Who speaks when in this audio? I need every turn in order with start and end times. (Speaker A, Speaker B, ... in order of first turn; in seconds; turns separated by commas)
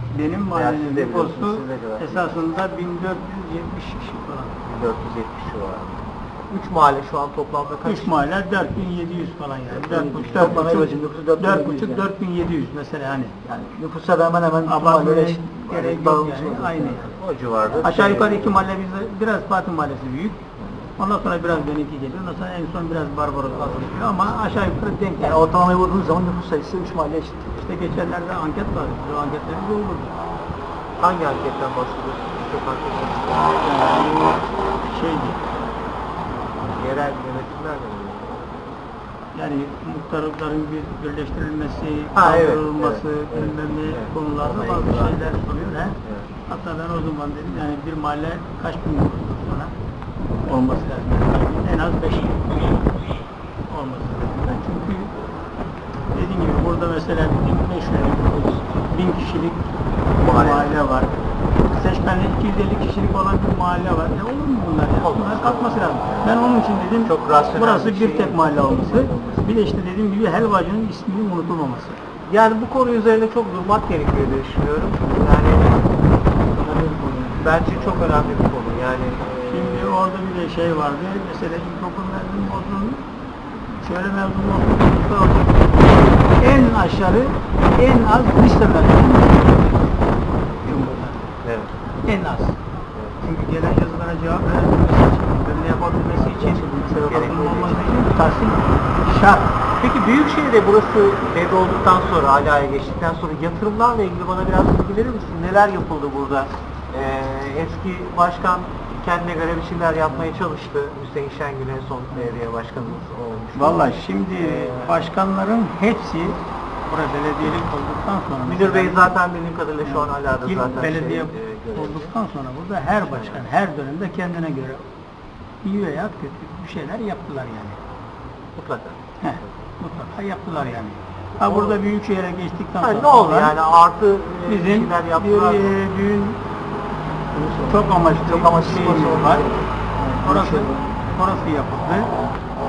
Speaker A: 0.1-4.8, Speaker B: 0.5-2.4, Speaker B: 4.7-8.2, Speaker A: 7.8-13.4, Speaker C: 9.8-12.1, Speaker B: 10.4-10.7, Speaker C: 13.4-17.0, Speaker A: 14.7-17.2, Speaker B: 16.9-18.6, Speaker A: 17.8-20.4, Speaker B: 20.6-20.9, Speaker A: 21.0-25.5, Speaker B: 23.5-24.3, Speaker C: 25.2-27.6, Speaker A: 27.6-30.2, Speaker B: 31.0-33.5, Speaker A: 33.6-35.4, Speaker B: 36.6-38.6, Speaker A: 39.3-46.0, Speaker B: 42.1-46.3, Speaker A: 46.5-49.7, Speaker A: 50.5-52.7, Speaker A: 53.7-55.3, Speaker A: 56.1-61.1, Speaker B: 60.2-60.8, Speaker A: 61.7-72.0, Speaker B: 65.0-69.4, Speaker C: 68.7-69.5, Speaker B: 72.3-75.9, Speaker C: 76.6-77.4, Speaker B: 77.4-79.9, Speaker A: 79.5-83.1, Speaker A: 83.8-91.3, Speaker B: 90.7-90.9, Speaker B: 91.4-91.7, Speaker A: 92.0-92.6, Speaker B: 93.0-93.2, Speaker A: 93.2-99.6, Speaker C: 96.1-97.3, Speaker B: 97.0-98.2, Speaker B: 99.8-115.1, Speaker A: 113.6-119.1, Speaker B: 118.5-122.1, Speaker A: 119.8-124.9, Speaker B: 123.0-123.4, Speaker A: 125.6-127.8, Speaker B: 128.6-129.5, Speaker A: 129.2-133.5, Speaker B: 131.4-131.8, Speaker B: 132.8-135.8, Speaker A: 134.5-136.4, Speaker C: 137.4-140.9, Speaker A: 137.6-139.5, Speaker A: 140.2-142.1